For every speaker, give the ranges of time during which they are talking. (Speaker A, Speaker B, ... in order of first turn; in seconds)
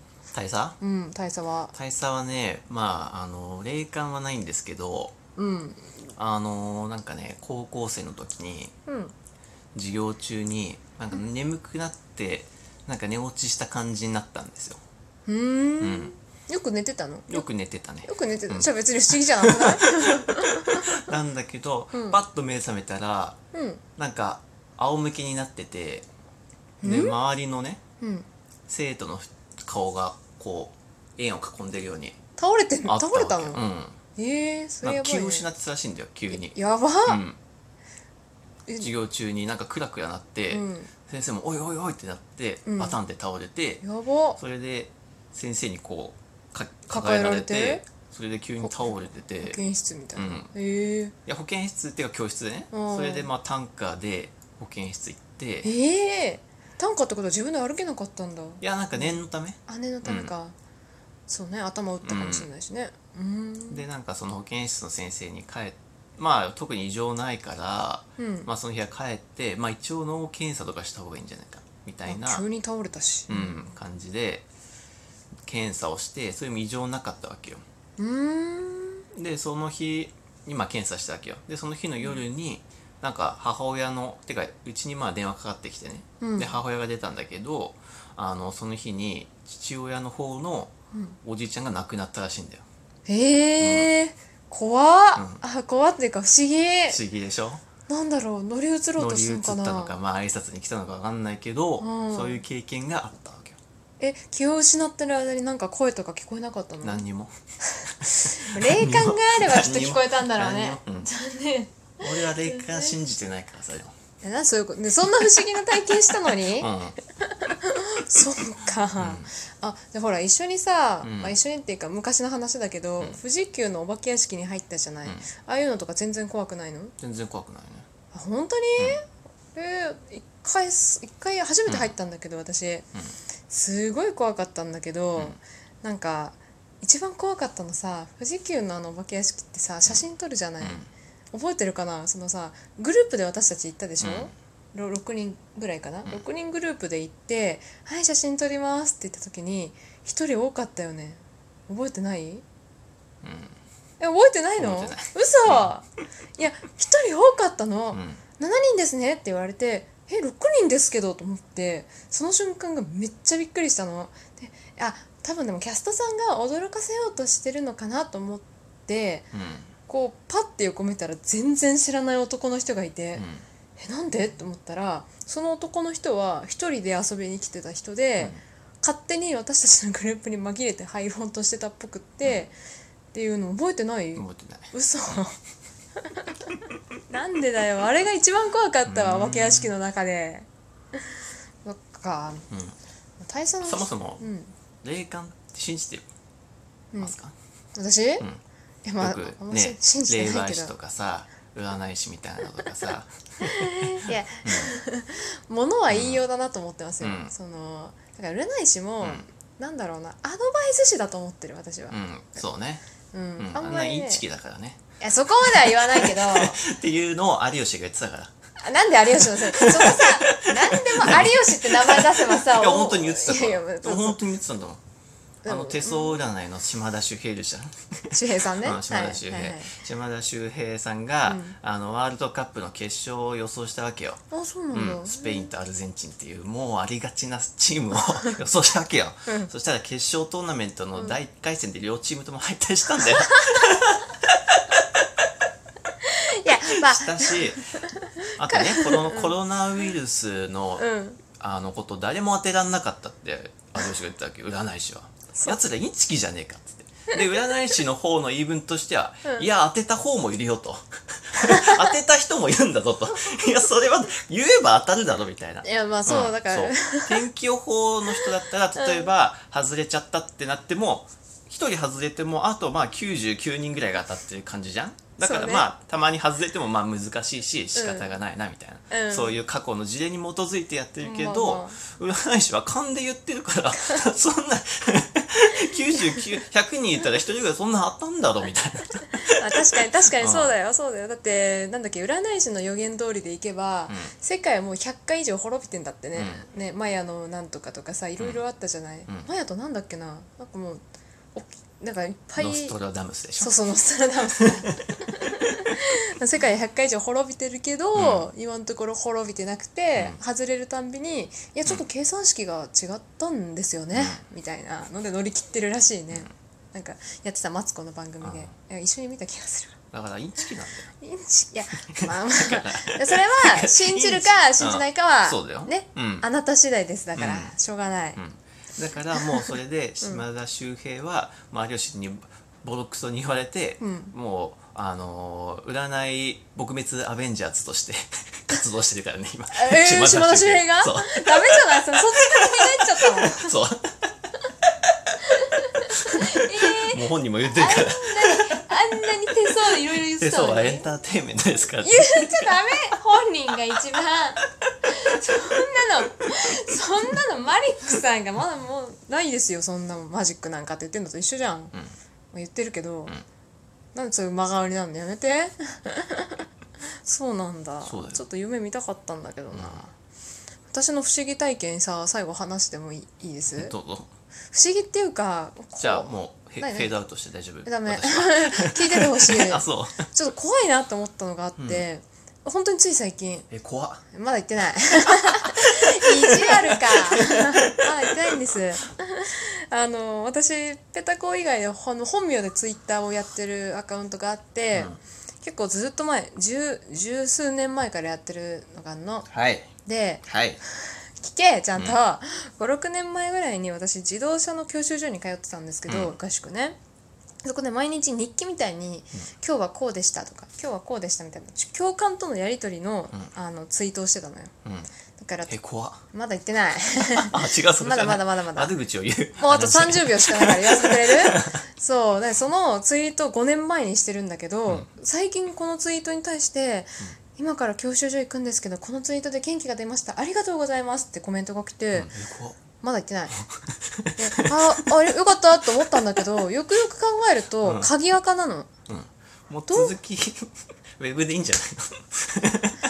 Speaker A: 0.3-0.8, 1.7-5.2, 6.2-8.7, 9.8-14.8, 15.8-16.1, 17.3-23.4, 24.0-26.1, 26.8-27.8, 28.7-32.2, 32.9-34.0, 34.8-37.4, 38.8-43.8, 44.4-49.6, 50.1-50.5, 51.3-55.7, 58.6-60.3, 62.0-62.5, 63.7-72.5, 73.3-74.5, 75.5-77.6, 79.1-90.7, 91.2-92.7, 93.6-93.9, 95.2-95.4, 96.9-97.6, 99.0-103.6, 106.8-107.4, 108.0-111.1, 112.0-113.9, 116.3-117.0, 119.0-119.3, 121.0-121.4, 127.0-127.9, 131.7-131.9, 140.6-140.9, 144.0-144.3, 153.2-153.6, 154.6-155.7, 157.9-158.2, 169.3-169.7, 173.2-173.4, 184.2-184.7, 188.9-189.7, 193.6-194.2, 194.8-196.1, 197.0-197.3, 199.0-204.7, 205.9-206.2, 207.0-207.3, 209.0-209.3, 211.9-212.8, 213.4-214.8, 215.5-218.3, 219.2-224.8, 225.5-234.2, 234.7-245.0, 246.7-247.7, 248.4-289.4, 290.2-290.5, 296.1-296.4, 302.4-303.6, 307.9-308.3, 313.9-314.2, 318.2-318.5, 319.9-320.9, 322.0-326.2, 327.2-327.6, 328.2-344.0, 345.9-348.7, 349.9-352.7, 367.8-368.2, 369.5-369.8, 373.5-374.1, 375.8-380.1, 381.6-381.9, 383.5-384.0, 385.4-387.8, 394.7-395.0, 399.3-399.7, 400.3-400.6, 405.9-406.1, 415.5-416.0, 417.2-421.6, 431.9-432.6, 433.7-434.9, 437.6-437.9, 438.9-440.5, 441.0-442.8
Speaker B: 0.8-1.7, 5.4-5.9, 8.9-9.1, 15.3-17.5, 18.1-20.9, 21.9-22.2, 23.5-23.8, 26.8-27.1, 28.0-28.3, 32.4-33.6, 34.2-35.5, 36.3-37.2, 40.5-40.9, 42.7-43.0, 43.8-44.4, 46.9-47.9, 48.6-51.1, 52.7-53.3, 55.6-60.5, 61.3-63.9, 68.2-68.5, 72.1-73.6, 78.0-79.0, 86.2-86.5, 93.1-97.0, 97.9-100.0, 101.8-102.4, 104.0-107.0, 107.7-112.9, 114.2-127.0, 128.1-132.9, 133.5-152.4, 154.0-155.8, 156.4-169.3, 169.9-173.3, 173.8-182.5, 183.1-185.4, 186.1-186.4, 187.1-192.4, 193.2-194.5, 197.8-198.3, 198.8-200.7, 203.5-212.0, 213.1-214.2, 215.0-216.6, 218.6-224.2, 225.4-226.3, 228.1-229.7, 231.3-231.6, 234.3-235.5, 243.3-243.6, 246.1-249.3, 250.8-251.2, 265.6-267.2, 268.8-269.1, 275.2-275.7, 277.8-278.1, 278.9-279.4, 281.0-281.8, 289.2-300.8, 301.4-302.8, 303.4-319.8, 321.0-328.2, 329.2-330.2, 333.8-334.1, 339.5-343.5, 345.2-350.9, 351.8-361.7, 362.3-363.2, 363.9-366.5, 367.0-369.9, 370.7-373.8, 374.5-376.9, 377.6-383.5, 384.1-399.3, 399.8-400.3, 400.8-406.8, 407.4-414.5, 415.2-415.5, 416.1-418.7, 419.4-432.1, 432.8-433.4, 434.2-438.7, 439.7-440.0